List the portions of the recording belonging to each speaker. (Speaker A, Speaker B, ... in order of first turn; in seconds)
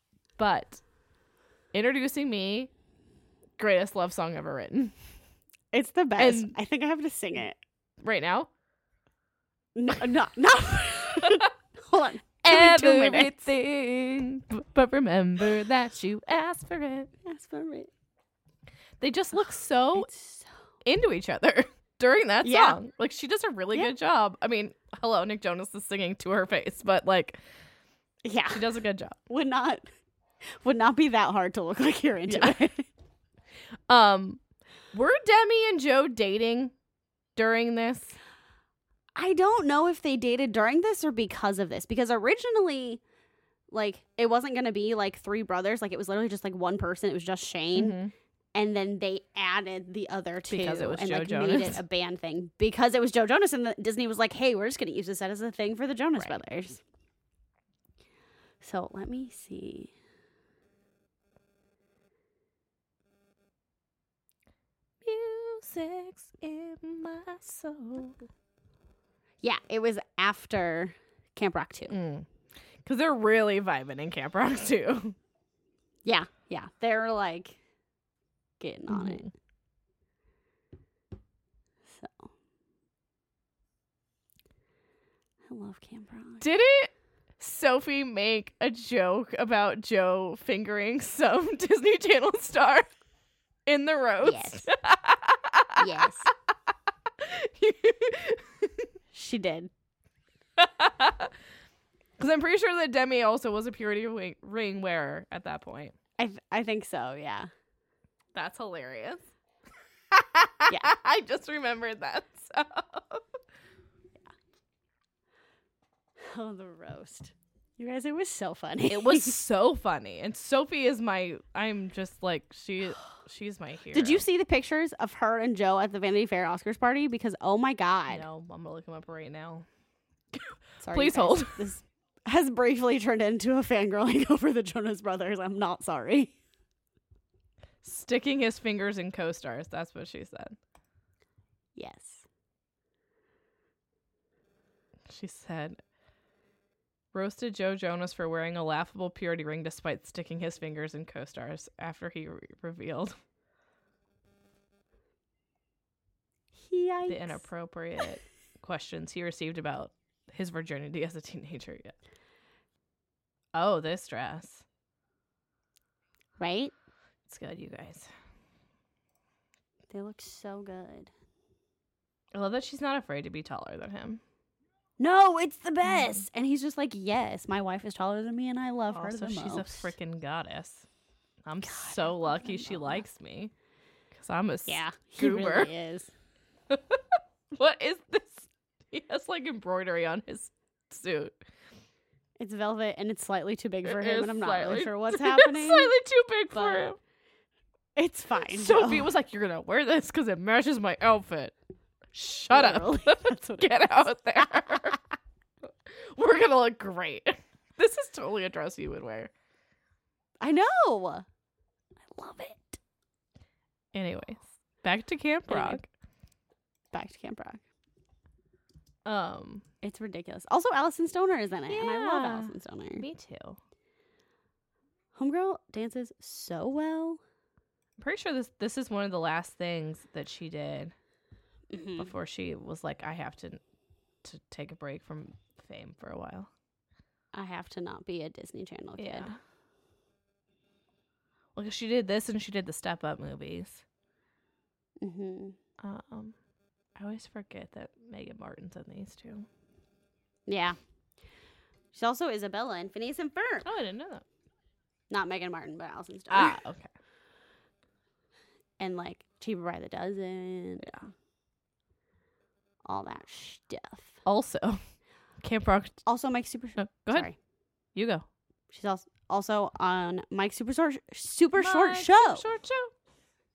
Speaker A: 0.4-0.8, 1.7-2.7, 3.6-4.9, 6.2-6.5, 8.0-8.5, 11.2-11.5, 12.4-17.1, 19.0-20.1, 20.8-27.4, 28.5-29.2, 32.3-32.6, 33.9-34.4, 34.9-36.7, 37.4-38.2, 47.8-48.1, 50.5-51.8, 65.0-68.3, 71.9-72.3, 72.8-75.1, 78.9-79.3, 86.4-92.9, 93.7-96.3, 97.2-98.9, 100.6-101.3, 102.2-105.9, 108.3-109.2, 110.1-113.2, 118.9-124.2, 128.1-129.7, 130.3-131.6, 137.8-140.6, 145.1-145.8, 147.1-153.1, 157.1-161.9, 163.5-164.6, 167.2-168.1, 172.3-174.2, 175.8-176.2, 178.9-180.9, 181.4-183.5, 184.1-185.7, 186.7-191.3, 193.8-197.0, 198.4-201.5, 202.1-205.0, 205.6-209.3, 213.9-215.9, 219.0-219.6, 221.7-223.6, 228.0-230.9, 232.0-233.6, 234.2-236.5, 239.0-239.4, 241.5-243.8, 245.8-246.3, 247.0-249.5, 253.6-254.2, 256.3-256.9, 260.8-261.1, 264.2-264.8, 265.4-266.0, 266.8-267.3, 267.9-268.2, 271.6-272.9
Speaker B: 5.7-7.6, 9.8-13.5, 17.2-17.9, 19.9-20.5, 22.4-22.8, 28.2-28.7, 29.3-29.8, 30.6-32.9, 39.1-43.0, 43.7-48.0, 48.5-56.8, 58.6-59.9, 69.4-72.0, 76.0-77.6, 78.6-79.3, 81.9-82.3, 85.5-86.5, 94.2-94.7, 95.8-96.3, 99.1-99.7, 106.2-107.5, 116.2-119.3, 123.9-128.2, 130.8-136.3, 141.8-142.2, 156.6-157.4, 166.4-166.7, 169.9-171.1, 175.0-179.9, 181.6-183.0, 184.7-186.1, 192.4-195.9, 196.5-196.9, 197.9-199.1, 202.5-204.9, 210.4-211.2, 212.2-212.8, 215.5-215.8, 216.9-217.6, 219.8-223.1, 225.2-227.2, 231.7-232.1, 237.3-239.3, 245.0-245.6, 250.5-250.8, 251.9-253.7, 255.1-256.6, 258.8-260.9, 262.8-264.2, 266.0-267.4, 268.7-272.5